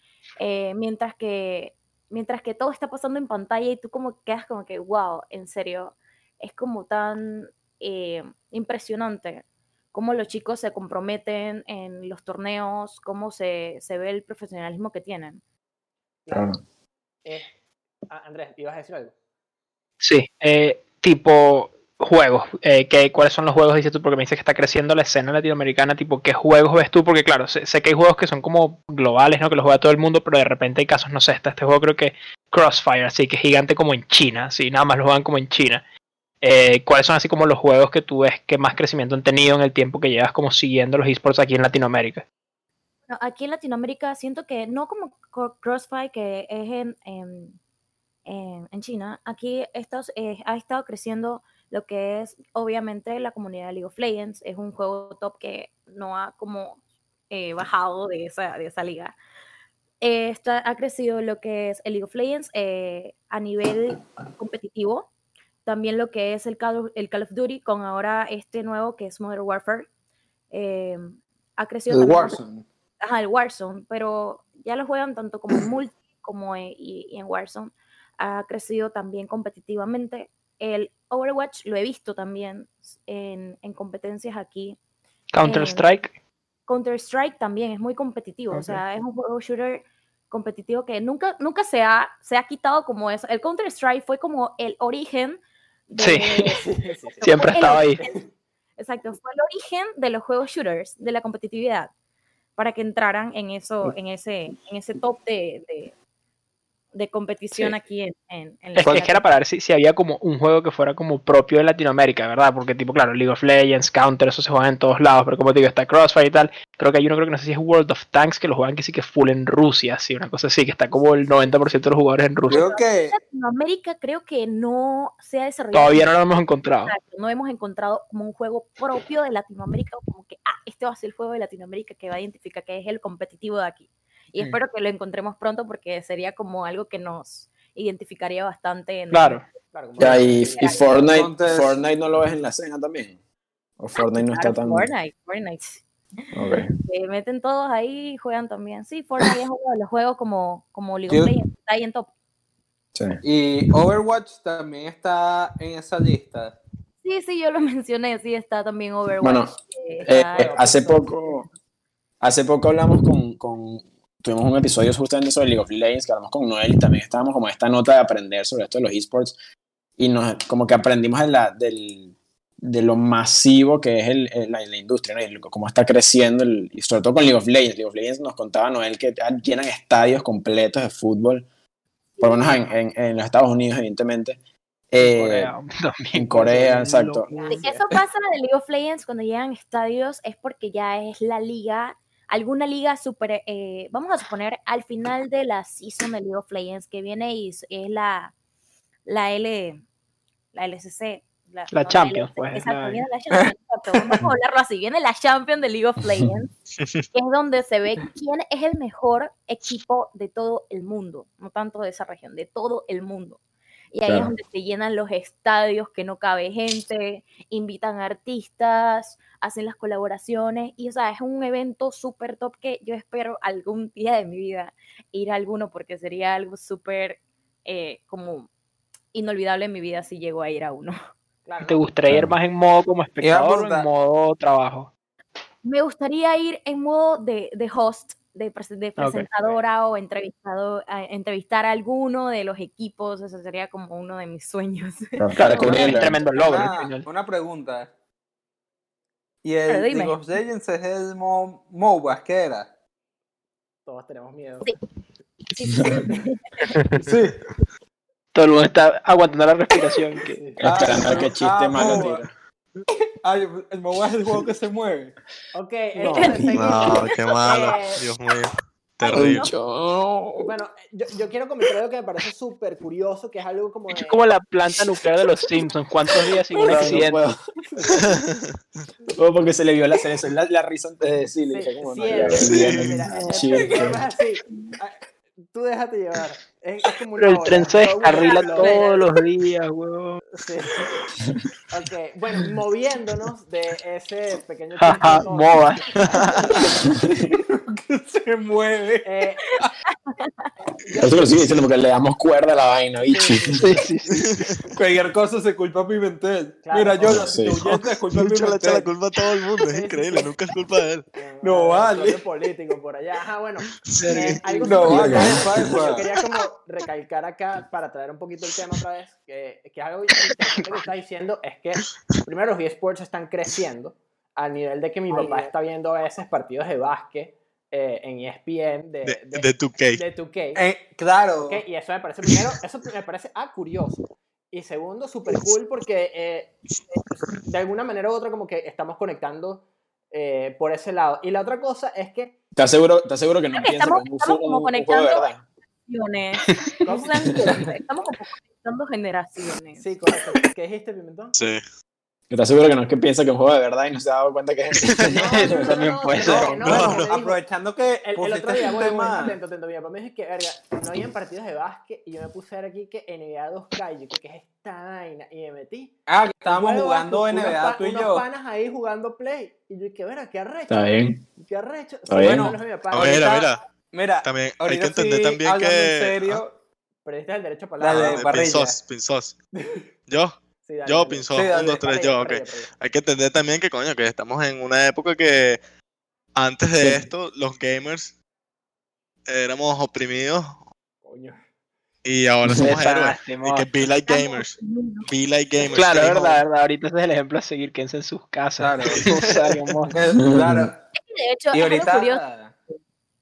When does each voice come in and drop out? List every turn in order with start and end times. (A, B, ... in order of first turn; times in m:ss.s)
0:00.4-0:15.4 A
0:16.2-0:16.6 B
0:16.3-0:16.6 C
0:17.2-0:17.5 B
0:18.1-0:19.1 B
0:20.0-0:35.8 D
0:36.4-0:42.2 D
0:43.1-0:47.6 A
0:48.2-0:59.1 A
1:00.0-1:05.1 A
1:05.6-1:09.9 A
1:10.5-1:12.4 A
1:11.9-1:12.6 E
1:13.0-1:24.8 A
1:25.3-1:26.1 D
1:25.4-1:25.9 A
1:26.7-1:38.1 A
1:28.5-1:28.8 D
1:36.0-1:36.6 D
1:36.6-1:38.3 B
1:37.2-1:38.0 D
1:38.8-1:41.9 A
1:42.6-1:45.9 A
1:46.9-1:49.2 A
1:48.7-2:02.7 D
2:02.5-2:03.2 E
2:02.5-2:06.1 A
2:05.7-2:06.9 D
2:06.8-2:19.4 A
2:19.1-2:19.4 D
2:19.7-2:20.8 B
2:20.0-2:23.2 C
2:20.0-2:20.9 A
2:21.0-2:21.8 E
2:23.8-2:24.9 C
2:24.0-2:25.8 A
2:26.3-2:26.7 C
2:26.8-2:32.1 A
2:31.1-2:31.3 E
2:32.9-2:33.2 C
2:33.2-2:36.6 E
2:37.0-2:41.1 A
2:39.2-2:41.5 C
2:40.3-2:41.1 B
2:42.2-2:49.3 C
2:50.0-3:01.5 C
3:02.2-3:02.6 A
3:02.2-3:04.4 C
3:04.9-3:05.5 C
3:05.0-3:07.8 D
3:06.1-3:07.3 C
3:07.3-3:07.8 B
3:07.5-3:18.3 A
3:19.0-3:19.8 A
3:20.5-3:26.5 A
3:21.7-3:23.0 D
3:23.3-3:24.2 E
3:26.8-3:27.0 F
3:27.1-3:33.4 A
3:33.9-3:48.5 A
3:34.0-3:34.3 C
3:49.1-3:51.0 A
3:51.4-3:51.9 B
3:51.6-3:54.9 D
3:52.1-3:52.3 C
3:53.2-3:53.9 E
3:55.6-4:05.8 A
3:59.0-3:59.3 D
4:05.2-4:06.2 C
4:05.3-4:07.1 D
4:05.7-4:07.9 E
4:09.4-4:12.7 E
4:09.7-4:10.2 A
4:13.9-4:14.7 B
4:15.5-4:16.6 A
4:17.0-4:17.4 E
4:18.3-4:20.5 D
4:20.2-4:20.6 B
4:20.6-4:22.3 C
4:20.6-4:22.2 E
4:23.2-4:25.1 E
4:25.5-4:28.0 B
4:26.0-4:27.1 A
4:26.1-4:26.3 C
4:26.5-4:29.5 F
4:29.0-4:29.5 A
4:29.1-4:30.5 C
4:30.4-4:34.3 B
4:33.9-4:37.2 D
4:36.6-4:38.0 C
4:39.1-4:44.0 C
4:41.5-4:45.0 B
4:42.4-4:42.9 F
4:45.5-4:49.0 B
4:47.2-4:50.2 D
4:48.0-4:48.9 A
4:50.3-4:50.9 B
4:51.7-4:56.6 B
4:54.8-4:56.3 D
4:57.3-4:59.0 E
4:59.0-4:59.5 B
5:00.0-5:00.5 A
5:00.9-5:01.3 B
5:01.0-5:03.8 C
5:03.1-5:03.6 B
5:03.6-5:04.2 D
5:04.1-5:04.6 F
5:04.7-5:08.9 E
5:06.6-5:07.3 B
5:07.0-5:07.6 C
5:07.6-5:11.1 F
5:09.6-5:10.3 B
5:11.1-5:30.6 B
5:11.4-5:12.2 E
5:13.9-5:14.4 F
5:14.0-5:15.1 D
5:14.6-5:16.0 E
5:14.8-5:15.8 C
5:29.0-5:30.0 F
5:30.6-5:31.6 E
5:31.4-5:36.6 B
5:37.4-5:42.3 B
5:42.6-5:45.4 C
5:43.5-5:45.3 A
5:45.9-5:49.8 A
5:46.8-5:47.7 B
5:49.8-5:51.3 B
5:51.3-5:51.6 F
5:52.3-5:55.7 C
5:55.1-5:57.4 B
5:55.2-5:56.6 D
5:56.2-5:59.4 E
5:56.6-5:57.1 F
5:58.0-6:13.5 B
6:06.1-6:08.2 E
6:10.7-6:11.2 C
6:12.1-6:12.5 C
6:12.2-6:16.5 E
6:12.9-6:13.6 F
6:14.2-6:16.4 F
6:17.0-6:18.4 B
6:17.8-6:18.8 E
6:17.8-6:19.4 F
6:20.1-6:20.3 F
6:20.6-6:22.7 B
6:20.8-6:25.6 F
6:21.3-6:21.8 E
6:26.3-6:28.1 F
6:26.8-6:27.1 C
6:29.3-6:30.6 F
6:31.0-6:31.4 B
6:32.0-6:36.4 F
6:32.6-6:33.7 D
6:34.1-6:35.1 A
6:35.6-6:40.0 D
6:38.6-6:39.4 E
6:39.9-6:40.8 E
6:40.2-6:40.7 C
6:41.0-6:42.2 A
6:41.5-6:42.5 E